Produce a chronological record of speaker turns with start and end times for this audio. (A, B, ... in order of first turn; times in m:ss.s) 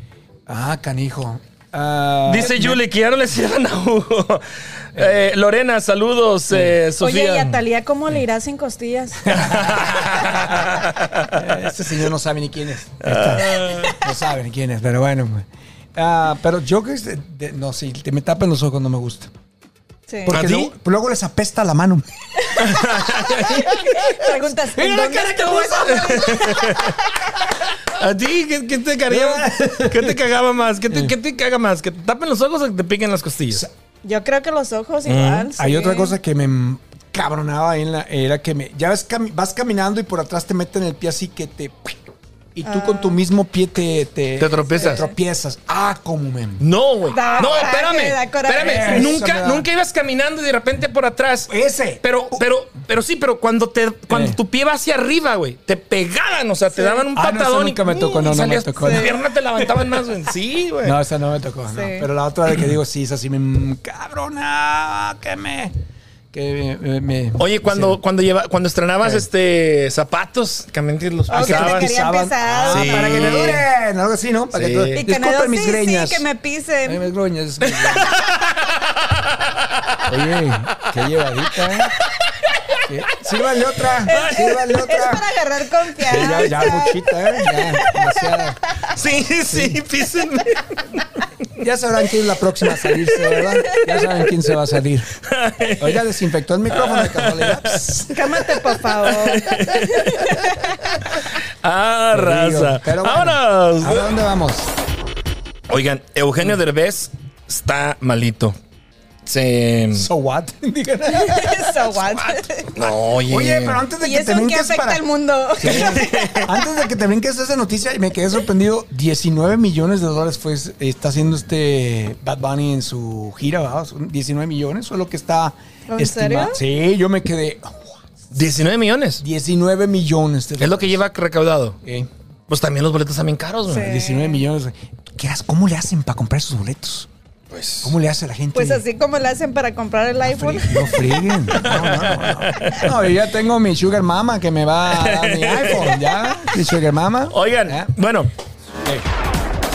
0:00.5-0:02.8 A
0:02.3-0:07.6 B
0:07.0-0:09.6 C
0:09.3-0:19.3 A
0:09.3-0:11.4 B
0:13.0-0:14.0 B
0:20.1-0:20.4 C
0:20.3-0:22.0 A
0:20.3-0:20.7 B
0:22.4-0:27.2 C
0:22.6-0:23.7 B
0:23.5-0:24.1 A
0:24.7-0:26.8 A
0:25.9-0:27.0 B
0:27.9-0:33.6 B
0:29.1-0:30.2 A
0:34.0-0:36.2 C
0:35.1-0:35.5 B
0:35.6-0:42.0 A
0:42.6-0:46.6 A
0:42.6-0:43.2 C
0:44.4-0:45.1 B
0:44.8-0:45.1 C
0:46.6-1:01.0 B
0:47.1-0:49.2 C
0:48.6-0:49.7 A
0:51.5-0:52.4 A
0:54.1-0:54.4 A
0:56.7-0:57.1 C
0:57.1-1:00.0 A
0:58.8-0:59.1 C
1:00.8-1:05.7 A
1:01.7-1:02.1 C
1:06.3-1:08.0 A
1:07.4-1:11.9 B
1:11.3-1:13.6 C
1:11.3-1:16.2 A
1:12.7-1:13.7 B
1:14.5-1:15.0 B
1:14.9-1:17.1 C
1:16.9-1:18.2 A
1:17.6-1:21.0 B
1:20.1-1:21.9 A
1:22.9-1:25.2 A
1:24.1-1:24.8 B
1:24.1-1:28.9 C
1:26.0-1:28.6 A
1:28.9-1:31.0 B
1:29.5-1:29.8 A
1:31.6-1:35.1 A
1:32.7-1:34.2 B
1:35.2-1:36.0 B
1:35.8-1:38.5 A
1:36.7-1:40.6 B
1:38.1-1:40.9 C
1:41.1-1:44.1 B
1:42.1-1:44.7 A
1:45.7-1:48.6 B
1:49.2-1:50.1 B
1:49.9-2:08.0 A
1:51.1-1:52.7 C
1:52.8-1:53.8 B
1:54.0-1:56.7 C
1:55.6-1:56.5 B
2:05.9-2:06.6 C
2:08.3-2:09.2 B
2:09.2-2:11.0 A
2:10.6-2:11.8 B
2:11.8-2:12.1 A
2:12.5-2:13.9 B
2:13.7-2:14.4 C
2:13.8-2:17.1 A
2:17.5-2:18.0 B
2:17.8-2:18.8 A
2:18.5-2:21.6 C
2:20.3-2:27.9 A
2:21.6-2:23.0 B
2:24.9-2:26.6 B
2:27.3-2:28.3 B